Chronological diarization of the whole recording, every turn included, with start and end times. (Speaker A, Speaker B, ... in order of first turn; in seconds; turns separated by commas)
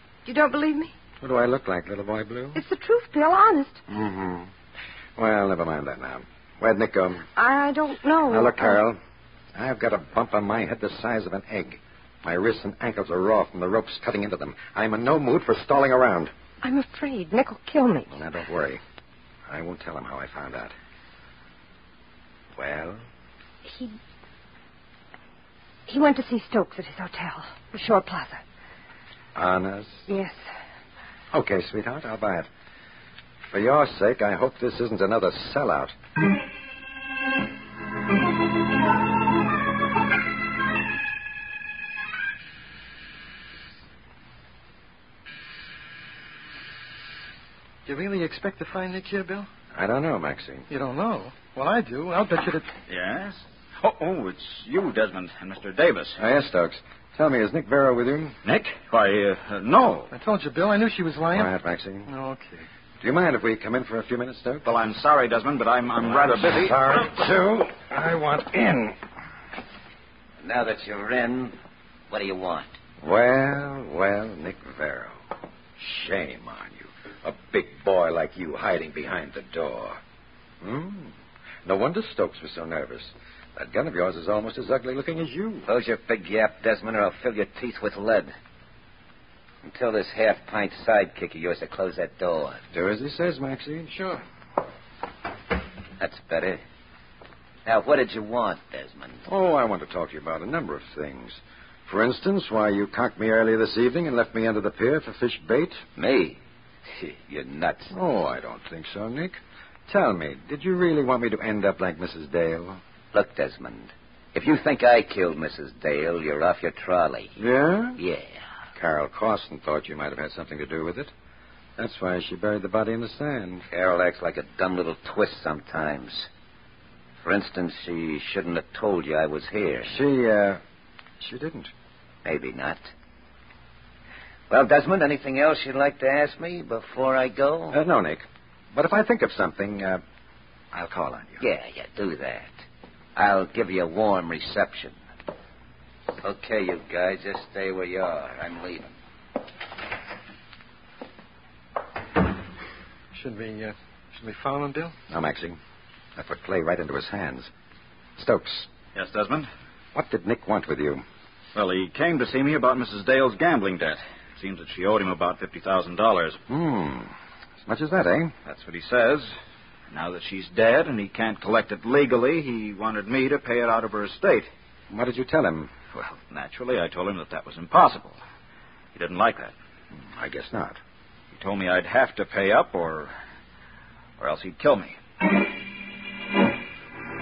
Speaker A: 0.2-0.9, Speaker B: 1.2-2.6, Speaker A: 2.5-3.8, Speaker B: 3.9-4.5, Speaker B: 5.2-7.3, Speaker A: 7.3-8.8, Speaker B: 8.3-9.0, Speaker B: 9.5-16.3, Speaker A: 16.6-18.1, Speaker B: 18.1-18.8, Speaker B: 19.5-20.7, Speaker B: 22.5-23.0, Speaker A: 23.6-23.9, Speaker A: 25.9-28.4, Speaker B: 29.3-30.1, Speaker A: 30.1-30.4, Speaker B: 31.3-32.5, Speaker B: 33.5-35.9, Speaker C: 47.9-49.5, Speaker B: 49.7-50.7, Speaker C: 50.7-52.7, Speaker D: 52.9-56.2, Speaker B: 56.2-58.4, Speaker D: 58.4-60.1, Speaker C: 60.1-61.5, Speaker B: 61.3-62.1, Speaker C: 62.1-62.6, Speaker B: 63.0-64.6, Speaker D: 64.6-67.1, Speaker B: 66.0-69.0, Speaker E: 70.4-71.5, Speaker E: 72.1-72.7, Speaker B: 73.0-75.2, Speaker B: 75.8-80.0, Speaker B: 80.6-81.1, Speaker B: 81.6-85.7, Speaker E: 85.7-88.3, Speaker E: 89.6-92.6, Speaker B: 92.7-94.0, Speaker C: 93.9-94.2, Speaker E: 96.0-96.6, Speaker E: 97.6-99.2, Speaker B: 99.2-105.8, Speaker E: 106.0-107.9, Speaker B: 107.9-112.8, Speaker E: 113.1-117.3, Speaker B: 117.4-118.0, Speaker E: 118.0-118.4, Speaker B: 118.8-121.1, Speaker B: 121.8-123.7, Speaker E: 123.7-126.3, Speaker E: 127.2-129.9, Speaker B: 129.8-130.6, Speaker B: 131.2-131.7, Speaker E: 132.2-132.9, Speaker E: 134.5-137.8, Speaker B: 137.7-140.0, Speaker B: 140.7-141.4, Speaker E: 141.4-142.5, Speaker E: 143.2-145.0, Speaker E: 146.2-148.9, Speaker C: 153.1-154.9, Speaker B: 155.1-155.6, Speaker B: 156.2-157.5, Speaker B: 158.2-158.7, Speaker D: 158.9-159.5, Speaker B: 159.9-161.0, Speaker D: 161.5-166.4, Speaker B: 166.5-167.1, Speaker B: 167.7-168.3, Speaker D: 168.4-169.3, Speaker D: 169.9-174.5, Speaker B: 174.9-175.7, Speaker D: 175.9-178.2, Speaker D: 178.9-179.5, Speaker B: 180.1-180.8, Speaker D: 181.3-183.1, Speaker D: 184.2-185.0